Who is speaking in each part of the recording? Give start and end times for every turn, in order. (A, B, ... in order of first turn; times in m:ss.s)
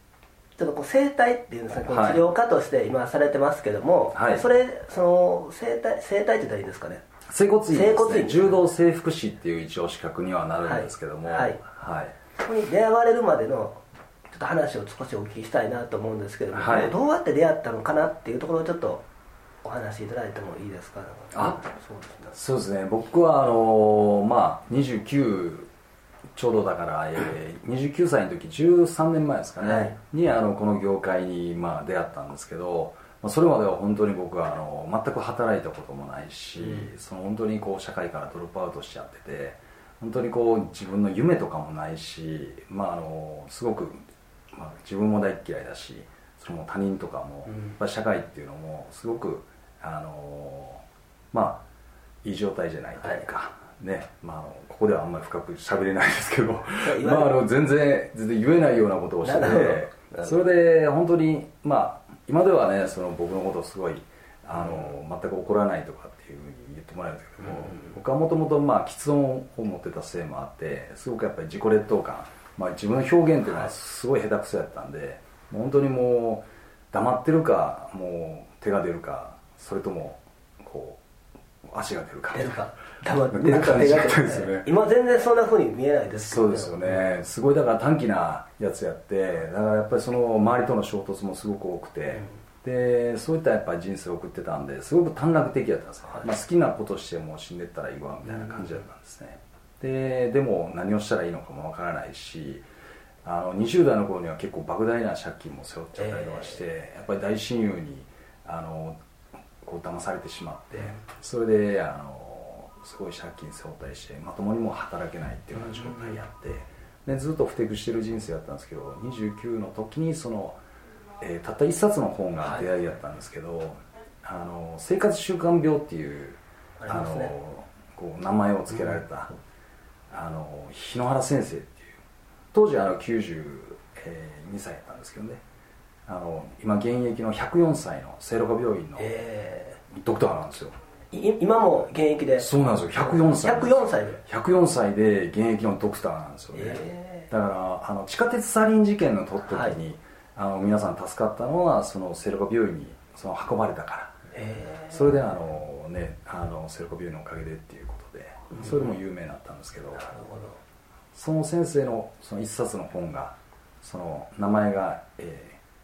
0:00.6-0:07.0 A
0:01.9-0:02.3 B
0:04.1-0:04.4 B
0:07.3-0:12.2 B
0:07.7-0:08.6 A
0:10.6-0:11.6 A
0:12.4-0:19.0 A
0:16.5-0:17.0 B
0:19.6-0:22.4 A
0:21.3-0:21.6 B
0:22.3-0:25.7 B
0:26.4-0:44.0 B
0:29.6-0:30.0 A
0:44.5-0:51.6 B
0:47.5-0:47.8 A
0:52.2-1:21.0 B
0:53.0-0:53.3 A
0:56.8-0:57.4 A
0:59.2-1:00.3 A
1:07.4-1:08.0 A
1:13.4-1:13.7 A
1:21.6-1:22.6 B
1:22.3-1:27.1 A
1:23.3-1:24.7 B
1:26.2-1:42.7 B
1:38.2-1:38.9 A
1:43.2-1:49.0 B
1:46.0-1:46.6 A
1:49.6-2:00.6 B
1:55.6-1:56.2 A
2:01.2-2:09.3 B
2:02.4-2:02.7 A
2:06.8-2:07.3 A
2:10.1-2:12.0 B
2:12.5-2:15.4 B
2:16.1-2:19.2 B
2:19.0-2:19.8 A
2:19.9-2:20.8 B
2:21.1-2:24.2 A
2:22.4-2:34.2 B
2:26.5-2:27.3 A
2:29.5-2:29.8 A
2:34.3-2:35.2 A
2:34.9-2:40.1 B
2:38.5-2:39.0 A
2:40.0-2:40.6 A
2:41.1-2:45.6 B